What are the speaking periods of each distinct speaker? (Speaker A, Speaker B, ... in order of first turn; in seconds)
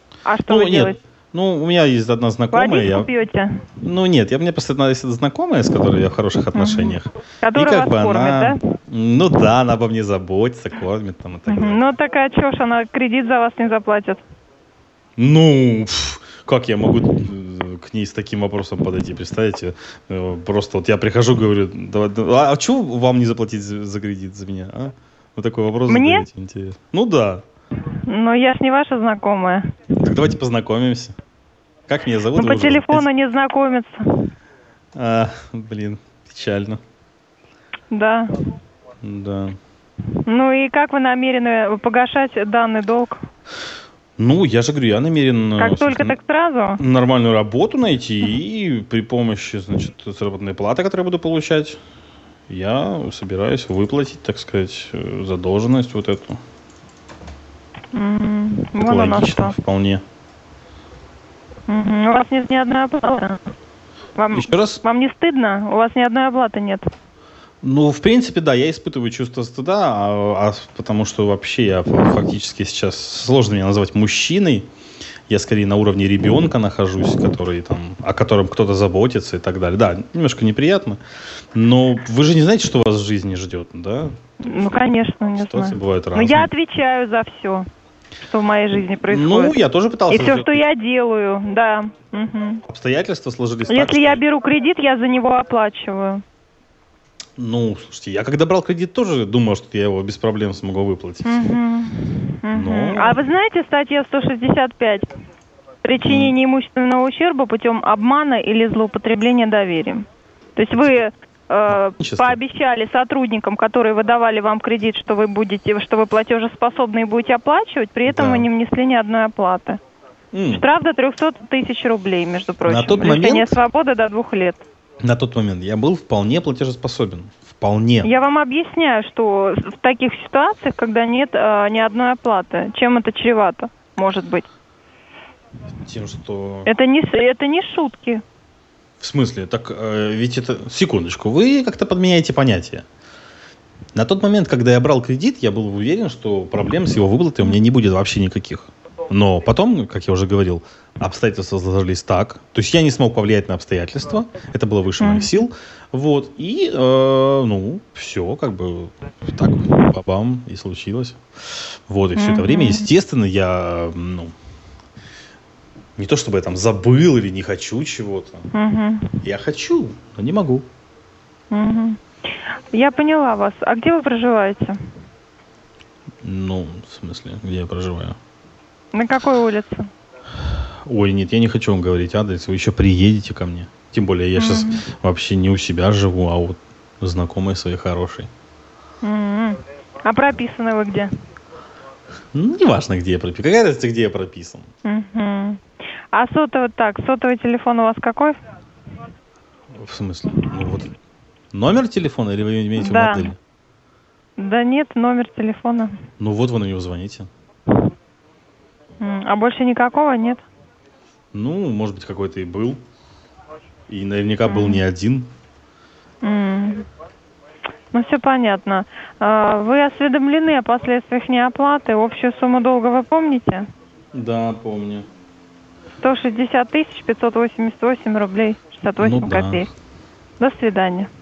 Speaker A: 0.2-1.0, 2.5-3.6, 6.5-8.6, 11.5-14.2, 25.9-26.3, 28.1-29.6, 32.3-34.3, 37.9-38.3, 40.2-43.2, 45.6-46.8, 57.9-59.5, 61.7-63.4, 64.2-66.9, 84.4-87.7, 88.2-89.6, 90.1-92.6, 93.7-96.2, 101.2-105.0, 105.8-119.8, 120.5-124.6, 128.0-134.5, 136.7-138.2, 155.0-155.4, 162.1-162.9, 168.5-169.2, 171.5-174.8, 178.9-179.9, 184.3-184.8, 189.0-191.1, 194.8-195.6, 196.1-198.4, 202.8-203.3, 204.4-205.9, 209.0-210.4, 214.4-214.8, 216.2-216.9, 217.9-223.7, 226.0-229.7, 230.4-231.1
Speaker B: 0.5-3.1, 3.8-11.8, 15.2-27.4, 30.0-31.1, 31.9-33.1, 34.9-36.8, 39.0-39.6, 44.2-46.2, 46.8-51.8, 52.5-56.4, 58.8-60.0, 64.3-64.8, 67.6-74.7, 75.3-81.0, 81.5-84.7, 85.4-86.5, 89.1-90.6, 92.7-94.2, 97.4-101.4, 102.5-103.2, 106.0-106.3, 110.7-111.0, 111.7-112.4, 118.0-118.5, 120.3-120.6, 122.6-123.6, 125.0-128.1, 135.8-136.7, 139.0-142.8, 143.9-161.2, 161.9-164.3, 166.0-168.5, 169.2-170.7, 176.2-178.2, 180.8-188.3, 192.3-194.7, 199.8-200.9, 201.5-203.4, 206.2-207.3, 211.3-212.8, 213.9-215.3, 224.1-225.1, 229.0-229.7